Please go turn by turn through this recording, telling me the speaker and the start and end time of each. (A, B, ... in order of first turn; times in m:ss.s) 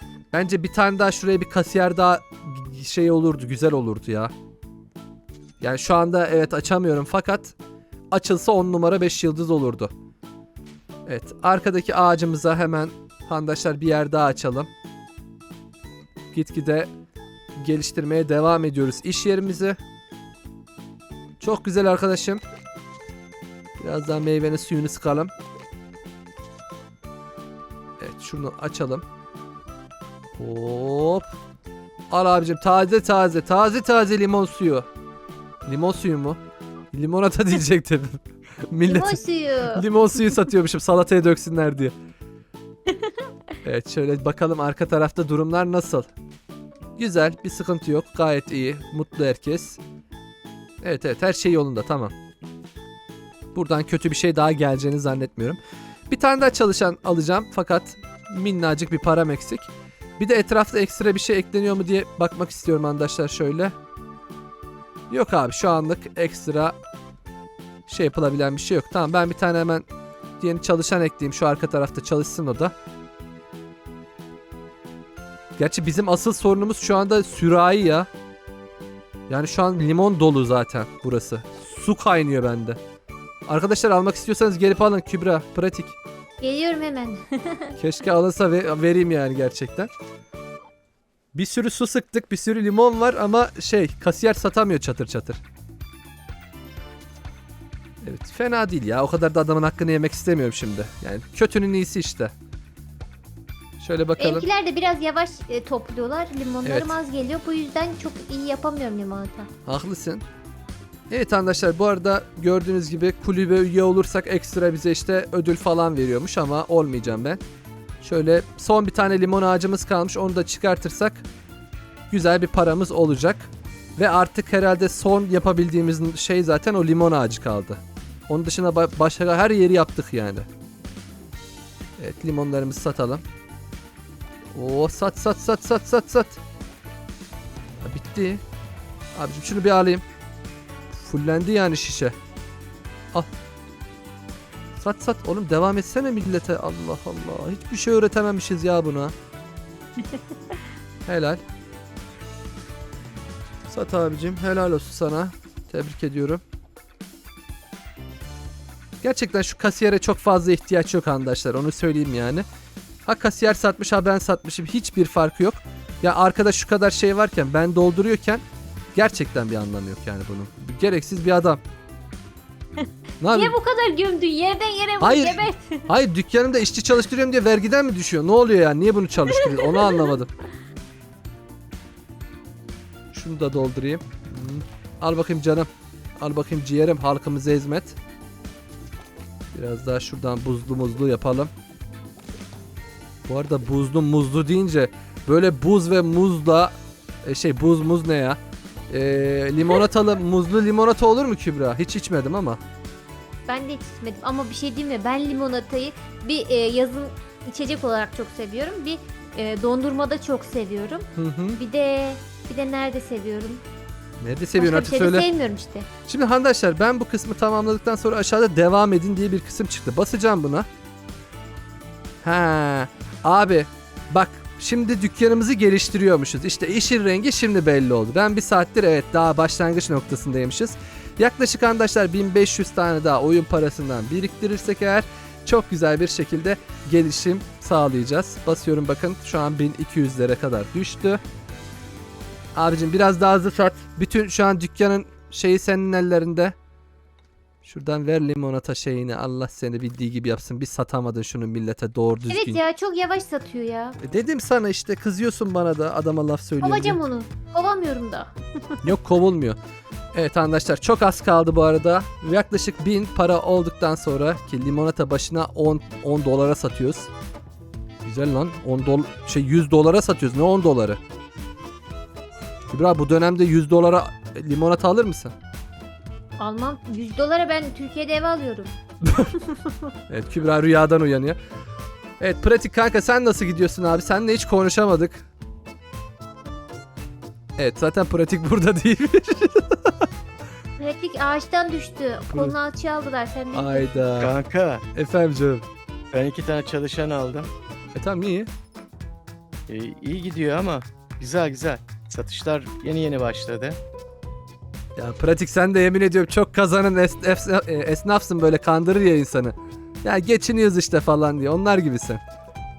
0:00.3-0:04.3 A
0:05.6-0:07.5 A
0:08.1-0:09.9 A
0:11.1-0:14.7 A
0:16.3-0:16.9 A
0:17.6-0:19.8 A
0:21.4-0:22.4 A
0:23.8-0:25.3 A
0:28.0-0:29.0 A
0:30.4-0:31.3 A
0:32.1-0:34.9 A
0:35.6-0:36.4 A
0:36.9-0:41.9 A
0:38.8-0:39.8 B
0:43.6-0:46.1 A
0:47.0-0:49.8 A
0:50.8-0:52.1 A
0:53.5-0:55.6 A
0:56.1-1:03.7 A
1:05.1-1:06.7 A
1:07.9-1:09.9 A
1:10.4-1:12.7 A
1:15.6-1:18.1 A
1:19.3-1:22.8 A
1:23.5-1:26.0 A
1:26.4-1:27.7 B
1:27.8-1:29.9 A
1:31.3-1:35.4 A
1:38.0-1:42.3 A
1:43.8-1:44.4 A
1:44.2-1:49.5 B
1:46.6-1:46.9 A
1:49.6-1:50.2 A
1:51.1-1:57.4 A
1:58.0-2:01.2 A
2:02.1-2:10.5 A
2:12.0-2:13.2 A
2:14.5-2:16.4 A
2:17.8-2:18.4 A
2:19.1-2:20.0 A
2:20.9-2:22.1 A
2:24.8-2:29.1 A
2:31.0-2:31.4 A
2:33.7-2:36.4 A
2:39.0-2:42.4 A
2:43.0-2:48.4 A
2:48.9-2:51.6 A
2:52.8-2:55.8 B
2:53.2-2:53.6 A
2:55.0-3:00.3 A
2:59.3-3:00.1 B
3:03.1-3:08.0 A
3:09.5-3:11.5 A
3:13.3-3:18.4 A
3:18.9-3:22.6 A
3:23.5-3:33.6 B
3:31.2-3:31.6 A
3:34.2-3:35.2 A
3:34.6-3:35.9 B
3:36.0-3:40.7 A
3:42.2-4:01.2 A
4:02.5-4:06.5 A
4:07.6-4:12.6 A
4:12.3-4:14.0 B
4:14.0-4:17.0 A
4:16.6-4:18.8 B
4:18.8-4:19.6 A
4:20.1-4:27.1 A
4:28.0-4:31.0 A
4:32.7-4:35.3 A
4:36.4-4:38.7 B
4:39.0-4:39.3 A
4:39.4-4:39.7 B
4:40.1-4:41.4 A
4:42.2-4:45.2 A
4:47.6-4:49.9 A
4:50.8-4:53.9 B
4:52.3-4:52.6 A
4:53.5-4:54.4 A
4:54.2-4:54.8 C
4:54.9-4:55.7 A
4:56.1-4:57.5 C
4:57.9-4:58.5 A
4:59.7-5:03.8 C
5:05.0-5:12.2 A